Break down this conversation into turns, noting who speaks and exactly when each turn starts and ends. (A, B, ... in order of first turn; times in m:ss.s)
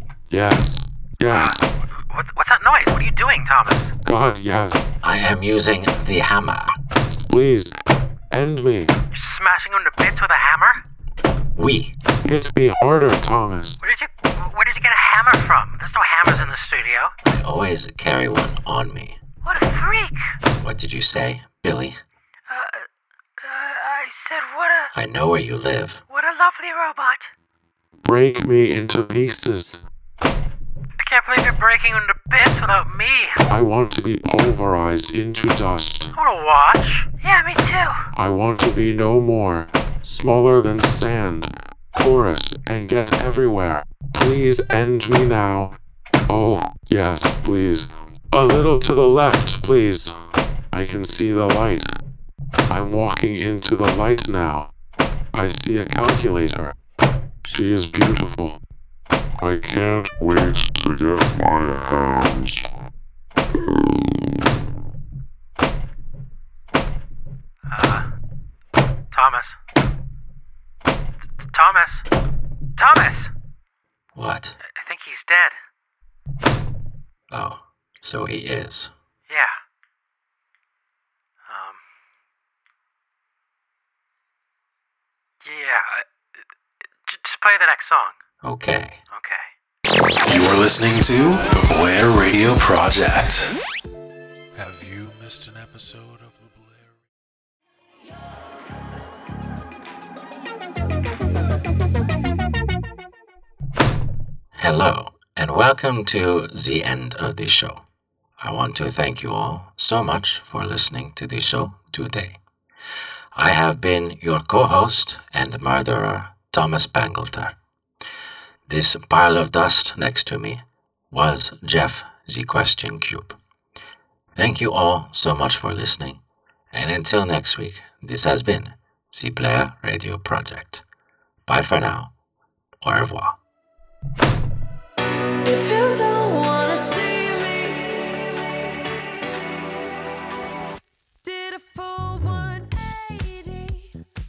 0:00.3-0:01.5 A
0:01.3-0:03.9 B
0:04.0-0:04.8 A
0:05.0-0:06.8 C
0:07.3-0:07.7 A
0:08.3-0:08.9 A
0:09.1-0:10.8 B
0:11.6-0:11.9 C
0:12.2-0:13.8 A
0:13.8-0:17.1 B
0:17.2-0:19.2 C
0:19.4-0:20.2 B
0:20.6-0:22.0 C
0:22.5-0:22.8 B
0:23.4-0:24.9 B
0:24.9-0:26.0 C
0:26.1-0:27.3 B
0:28.0-0:29.8 A
0:31.0-0:33.4 B
0:33.5-0:36.1 A
0:36.1-0:38.0 B
0:38.1-0:45.8 A
0:46.3-0:50.1 A
0:50.7-0:51.9 A
0:52.7-0:54.7 A
0:55.3-0:56.7 A
0:57.4-0:58.6 A
0:59.4-1:02.6 A
1:07.7-1:08.1 B
1:09.1-1:09.6 B
1:11.4-1:12.0 B
1:12.8-1:13.3 B
1:14.1-1:14.6 C
1:14.6-1:15.6 B
1:17.3-1:18.9 C
1:19.3-1:19.6 B
1:21.4-1:21.8 B
1:25.4-1:26.4 B
1:27.0-1:28.2 B
1:28.4-1:29.0 C
1:29.1-1:29.5 B
1:30.2-1:33.5 D
1:34.6-1:37.0 D
1:44.6-1:47.8 C
1:48.4-1:52.4 C
1:53.3-1:57.6 C
1:58.7-2:03.4 C
2:04.4-2:06.2 C
2:06.7-2:10.8 C
2:11.4-2:12.1 C
2:12.8-2:13.4 C
2:15.4-2:18.1 E
2:21.2-2:23.9 E